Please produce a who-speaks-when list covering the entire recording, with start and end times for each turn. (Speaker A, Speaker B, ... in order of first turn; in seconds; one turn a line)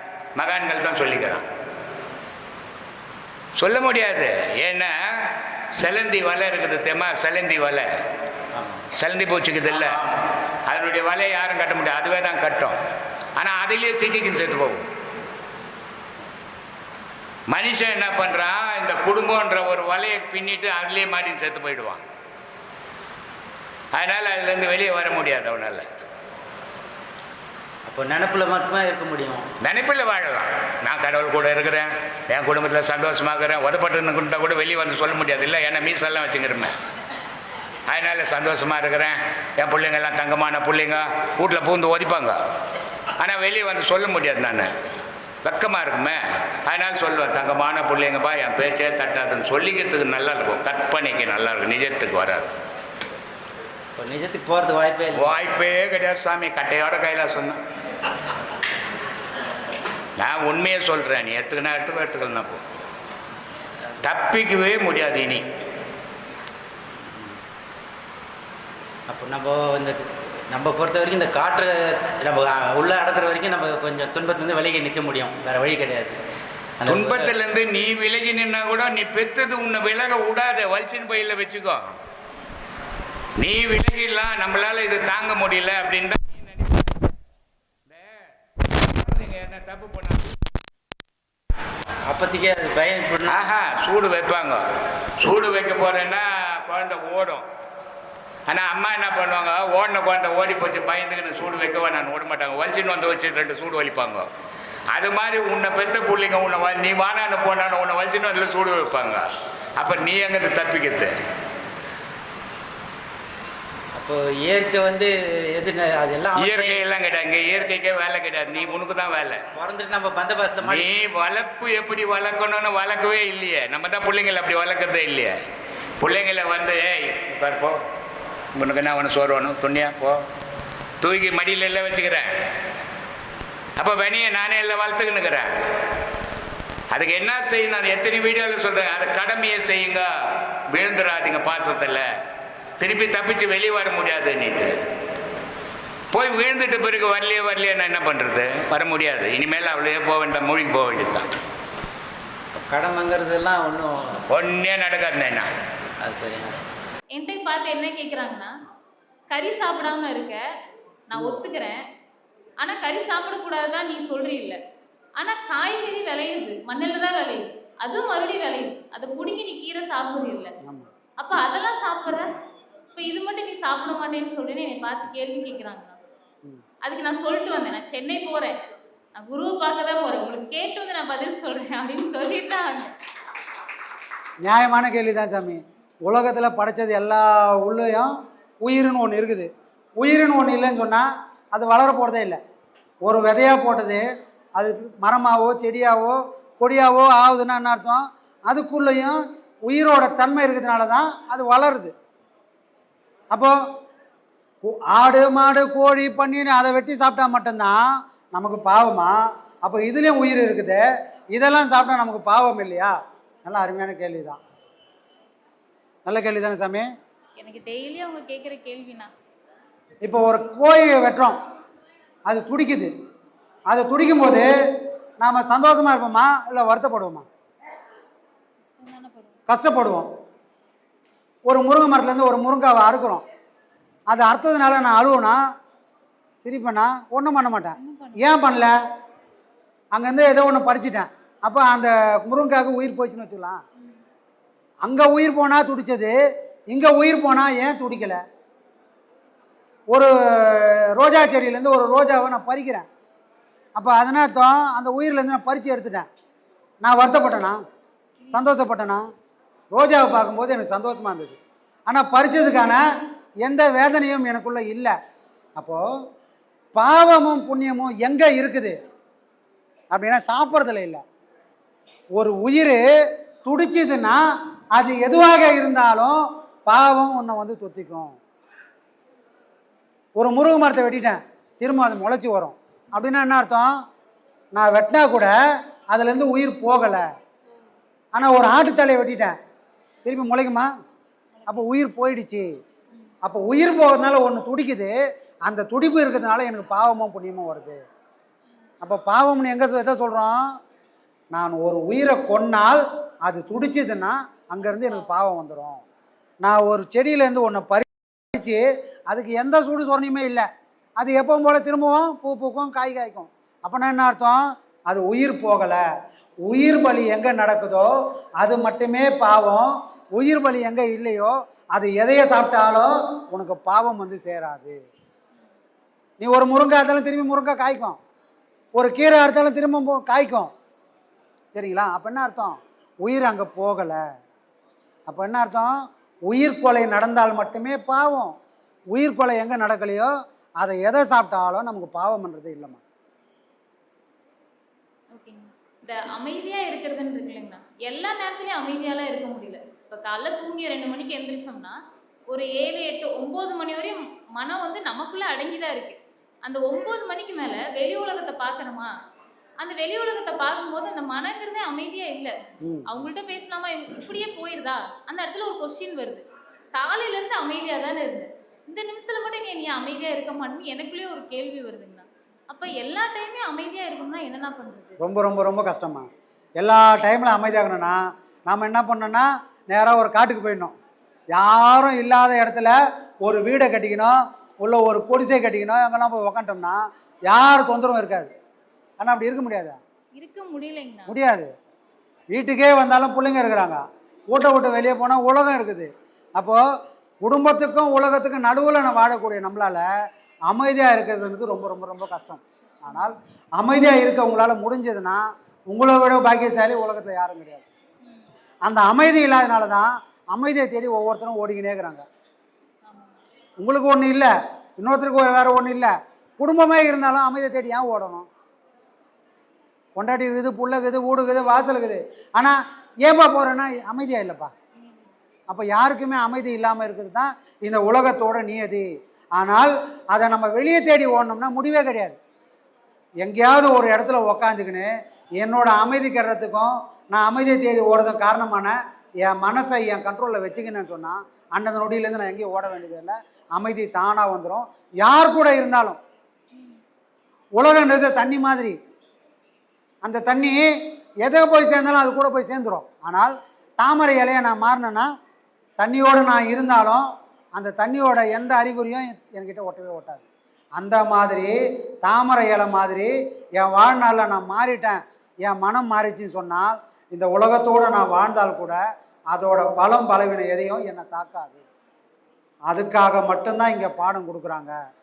Speaker A: 0.3-1.5
Speaker A: 3.6-7.9
Speaker B: 8.5-8.9
Speaker A: 9.0-10.0
Speaker B: 9.7-10.3
Speaker A: 10.7-12.8
Speaker A: 13.4-14.9
Speaker A: 17.5-22.0
Speaker A: 23.9-25.9
Speaker B: 27.8-29.5
Speaker A: 29.6-36.7
Speaker A: 37.9-42.4
Speaker A: 43.2-44.7
Speaker A: 45.4-52.5
Speaker B: 54.0-55.4
Speaker A: 55.1-57.6
Speaker A: 60.2-62.6
Speaker A: 64.0-65.5
Speaker B: 69.1-76.2
Speaker B: 76.8-77.3
Speaker A: 76.9-81.9
Speaker A: 83.4-87.0
Speaker A: 87.9-90.4
Speaker B: 92.0-93.4
Speaker A: 93.3-94.6
Speaker A: 95.2-97.5
Speaker A: 98.5-104.3
Speaker A: 104.9-109.2
Speaker A: 109.8-111.1
Speaker B: 113.9-116.8
Speaker A: 116.4-119.4
Speaker B: 119.5-120.9
Speaker A: 120.6-125.4
Speaker A: 126.0-127.8
Speaker A: 128.5-130.2
Speaker A: 131.0-132.3
Speaker A: 133.8-135.6
Speaker A: 136.9-142.1
Speaker A: 142.8-144.7
Speaker A: 146.1-151.3
Speaker B: 152.5-154.2
Speaker A: 154.3-155.5
Speaker B: 156.0-156.6
Speaker C: 157.1-158.5
Speaker C: 159.3-160.4
Speaker C: 161.1-161.8
Speaker D: 161.1-161.4
Speaker C: 162.6-164.6
Speaker C: 165.2-170.5
Speaker D: 170.6-170.9
Speaker C: 171.2-172.3
Speaker C: 172.9-176.0
Speaker C: 176.8-178.5
Speaker C: 179.1-182.9
Speaker D: 184.4-192.4
Speaker D: 193.0-194.0
Speaker D: 194.6-201.9
Speaker D: 204.6-207.8
Speaker D: 208.3-212.9
Speaker D: 213.4-214.4
Speaker D: 216.1-216.9
Speaker C: 217.4-219.1
Speaker D: 220.0-221.3
Speaker D: 222.3-222.9
Speaker D: 223.7-224.5
Speaker D: 225.2-227.2
Speaker C: 228.6-229.4
Speaker D: 229.5-230.1
Speaker D: 231.4-233.2
Speaker D: 234.1-235.4
Speaker D: 236.4-238.8
Speaker C: 237.8-238.3
Speaker D: 239.9-243.6
Speaker D: 244.8-246.1
Speaker D: 246.7-248.2
Speaker D: 249.9-252.8
Speaker D: 253.8-256.1
Speaker D: 256.8-257.6
Speaker D: 258.3-259.0
Speaker D: 259.7-262.8
Speaker D: 263.4-264.9
Speaker D: 265.6-265.8
Speaker D: 266.7-268.8
Speaker D: 269.9-271.0
Speaker D: 272.1-272.8
Speaker D: 273.4-274.2
Speaker D: 274.7-278.1
Speaker D: 280.2-283.7
Speaker D: 284.5-285.3
Speaker D: 285.9-287.0
Speaker D: 288.1-289.3
Speaker D: 290.0-290.7
Speaker C: 291.3-291.6
Speaker D: 291.5-292.5
Speaker D: 293.2-294.9
Speaker D: 295.4-297.8
Speaker D: 298.8-300.4
Speaker D: 301.3-305.8
Speaker C: 304.7-305.1
Speaker D: 306.4-310.5
Speaker D: 311.0-315.8
Speaker D: 316.4-324.8
Speaker D: 326.2-328.0
Speaker D: 328.7-330.5
Speaker D: 331.5-334.0
Speaker D: 335.1-335.8
Speaker D: 336.3-338.3
Speaker D: 338.9-342.8
Speaker C: 345.1-351.8
Speaker C: 352.3-358.9
Speaker C: 359.6-362.4
Speaker C: 362.9-375.0
Speaker D: 375.0-376.1
Speaker D: 376.6-380.7
Speaker D: 381.3-388.3
Speaker D: 389.0-389.8
Speaker C: 390.1-391.1
Speaker D: 391.1-391.5
Speaker D: 392.3-396.6
Speaker D: 397.2-399.8
Speaker D: 400.5-407.6
Speaker C: 402.7-403.1
Speaker D: 408.6-412.0
Speaker C: 412.9-413.1
Speaker D: 413.6-418.3
Speaker D: 419.9-424.5
Speaker D: 425.5-432.2
Speaker D: 433.2-446.0
Speaker D: 447.6-448.8
Speaker D: 450.0-450.7
Speaker D: 451.2-455.1
Speaker D: 455.8-460.2
Speaker D: 460.8-468.8
Speaker D: 469.3-471.6
Speaker D: 472.7-474.7